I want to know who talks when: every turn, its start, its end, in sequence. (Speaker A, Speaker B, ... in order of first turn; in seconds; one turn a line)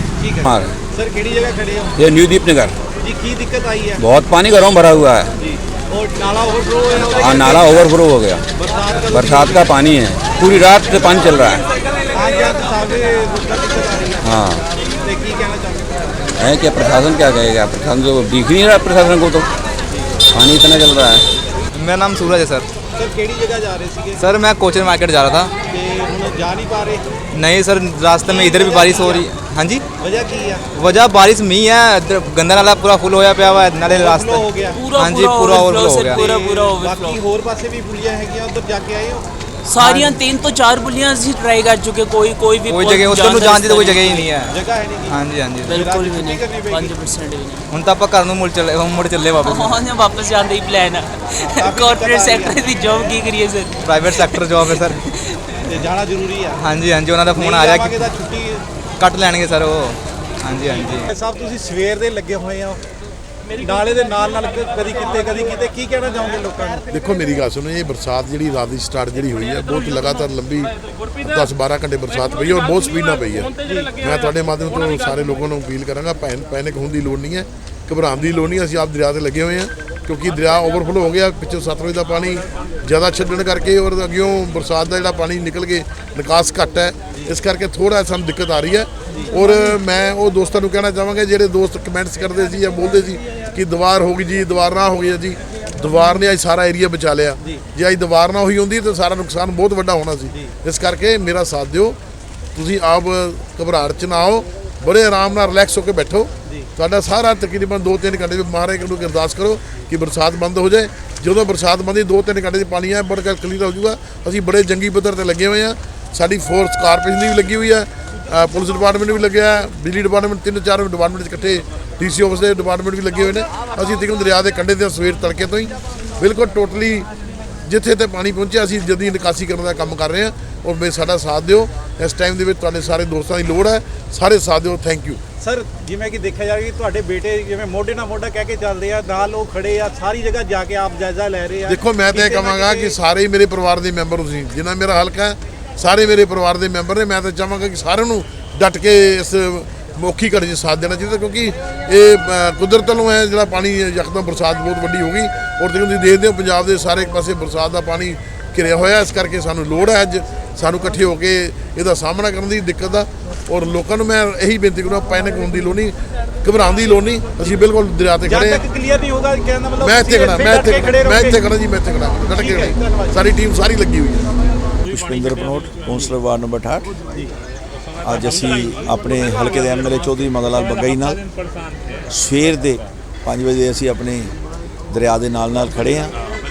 Speaker A: 0.2-1.9
Speaker B: 0.4-0.7
Speaker B: 2.0-2.7
Speaker A: 3.0-4.0
Speaker B: 4.0-5.3
Speaker A: 5.4-8.0
Speaker B: 6.9-8.4
Speaker A: 8.6-9.8
Speaker B: 9.0-11.7
Speaker A: 12.1-14.4
Speaker B: 14.2-14.6
Speaker A: 15.0-16.2
Speaker B: 16.4-19.5
Speaker B: 20.2-21.2
Speaker C: 21.7-22.6
Speaker A: 22.9-24.2
Speaker C: 24.2-25.5
Speaker A: 25.7-27.0
Speaker C: 27.3-29.8
Speaker A: 28.2-29.2
Speaker A: 30.0-30.6
Speaker C: 30.8-36.3
Speaker A: 33.8-34.9
Speaker D: 34.8-37.1
Speaker A: 36.1-39.2
Speaker D: 39.7-44.3
Speaker A: 39.8-40.1
Speaker C: 42.7-45.8
Speaker A: 44.5-47.0
Speaker D: 45.7-47.6
Speaker C: 47.7-49.8
Speaker D: 49.4-54.9
Speaker A: 51.4-52.6
Speaker C: 53.8-55.0
Speaker A: 55.7-56.6
Speaker C: 56.6-58.1
Speaker A: 57.3-58.6
Speaker C: 59.0-61.1
Speaker A: 60.7-62.8
Speaker A: 63.6-66.8
Speaker E: 66.9-102.0
Speaker A: 73.6-74.0
Speaker A: 89.1-89.3
Speaker E: 102.5-127.1
Speaker E: 127.6-135.2
Speaker A: 135.4-143.0
Speaker E: 141.7-168.6
Speaker A: 168.2-171.4
Speaker E: 169.8-174.3
Speaker A: 172.3-173.2
Speaker F: 174.8-177.0
Speaker A: 177.0-177.3
Speaker F: 178.0-181.2
Speaker F: 182.0-184.3
Speaker F: 184.9-186.2